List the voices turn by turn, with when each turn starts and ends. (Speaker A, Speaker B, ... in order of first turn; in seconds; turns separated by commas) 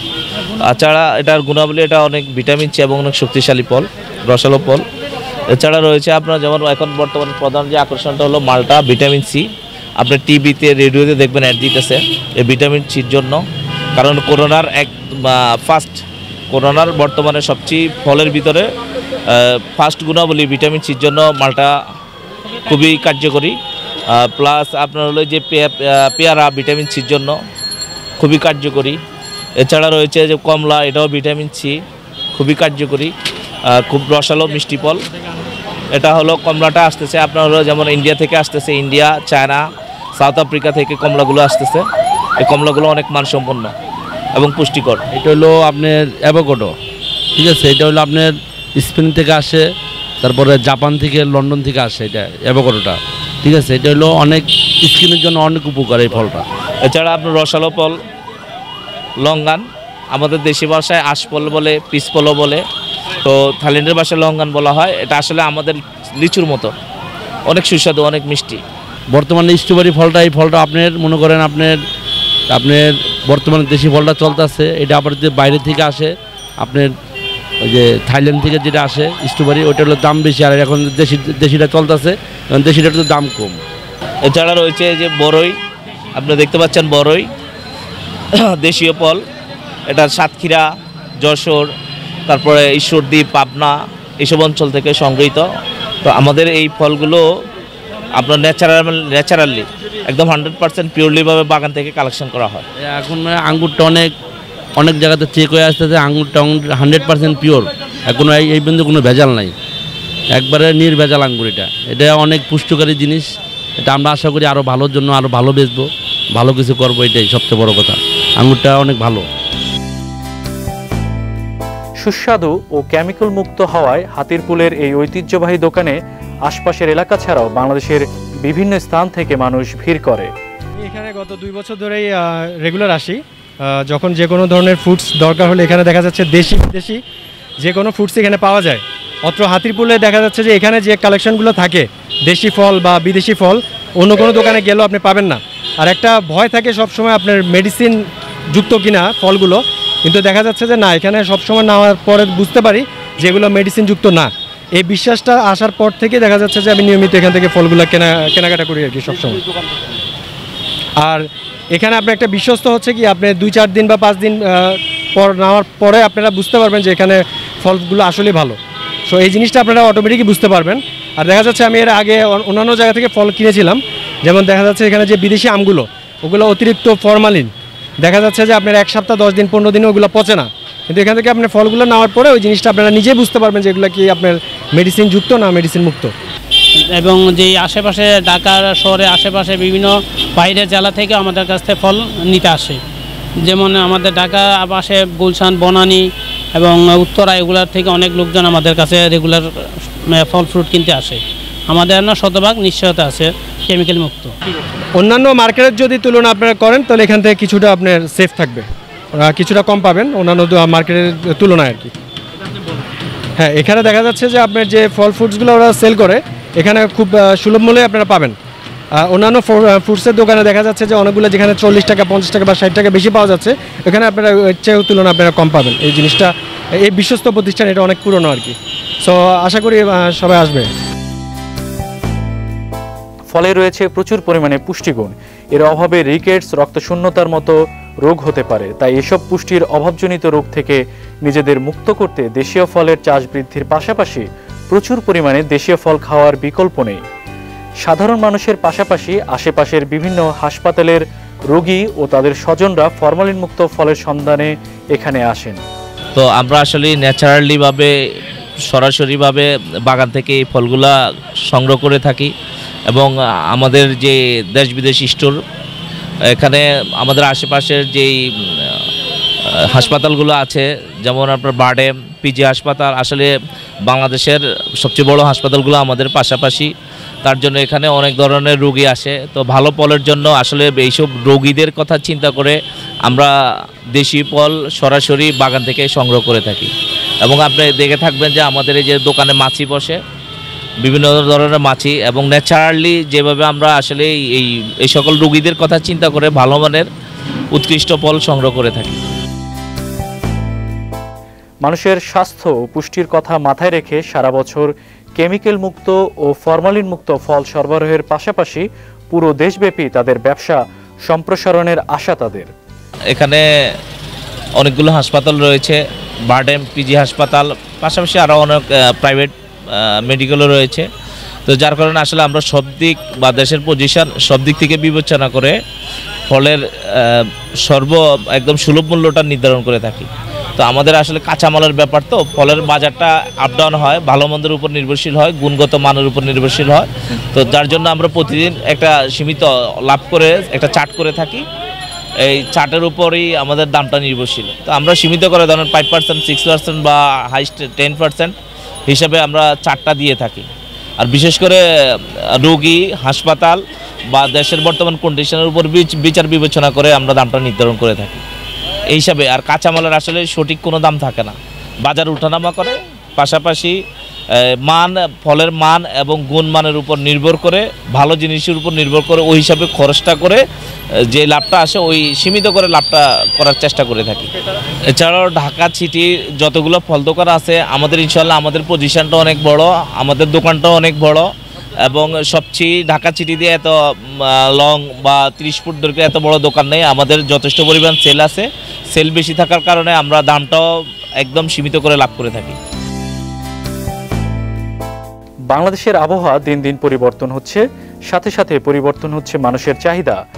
Speaker A: 0.6-4.8, Speaker A: 5.5-9.5, Speaker A: 10.0-13.4, Speaker A: 13.9-18.7, Speaker A: 19.3-21.7, Speaker A: 22.7-23.6, Speaker A: 24.1-27.4, Speaker A: 28.2-29.0, Speaker A: 29.6-31.8, Speaker A: 32.3-33.1, Speaker A: 33.7-35.0, Speaker A: 35.9-39.6, Speaker A: 40.2-41.9, Speaker A: 42.4-43.7, Speaker A: 44.4-45.0, Speaker B: 45.1-46.7, Speaker B: 47.4-49.6, Speaker B: 50.2-56.5, Speaker A: 56.9-58.0, Speaker A: 59.2-62.6, Speaker A: 63.2-66.7, Speaker A: 67.5-68.6, Speaker B: 69.1-71.8, Speaker B: 72.5-76.9, Speaker B: 77.6-83.6, Speaker A: 84.3-85.5, Speaker A: 86.1-87.3, Speaker A: 88.5-89.2, Speaker A: 89.9-90.7, Speaker A: 91.2-91.7, Speaker A: 92.3-95.5, Speaker A: 96.0-97.2, Speaker A: 98.2-102.7, Speaker B: 102.9-104.1, Speaker B: 104.8-109.5, Speaker B: 110.3-113.3, Speaker B: 113.8-119.3, Speaker C: 122.0-130.3, Speaker D: 130.8-137.0, Speaker D: 137.6-159.4, Speaker D: 161.0-177.5, Speaker D: 178.0-186.1, Speaker E: 187.0-192.8, Speaker E: 193.4-196.0, Speaker E: 196.6-204.3, Speaker D: 205.0-208.7, Speaker D: 209.2-211.9, Speaker D: 213.4-218.4, Speaker D: 219.0-230.7, Speaker C: 233.3-247.0, Speaker C: 247.8-255.6, Speaker A: 256.1-257.9, Speaker A: 258.7-261.0, Speaker A: 261.5-262.3, Speaker A: 262.9-265.4, Speaker A: 266.3-268.8, Speaker A: 269.6-273.3, Speaker A: 273.9-276.7, Speaker A: 277.2-283.3, Speaker A: 283.9-286.7, Speaker A: 287.2-290.0, Speaker A: 290.8-296.9, Speaker A: 297.5-299.0, Speaker C: 301.6-312.5, Speaker A: 313.1-313.4, Speaker A: 314.6-320.9, Speaker A: 321.5-325.6, Speaker A: 326.3-341.4, Speaker A: 342.3-348.4, Speaker A: 348.9-350.5, Speaker A: 351.0-353.6, Speaker A: 354.1-358.2, Speaker A: 358.9-363.8, Speaker A: 364.6-370.4, Speaker A: 371.1-374.3, Speaker A: 374.9-381.3, Speaker A: 381.9-390.7, Speaker A: 391.2-392.6, Speaker C: 395.5-400.2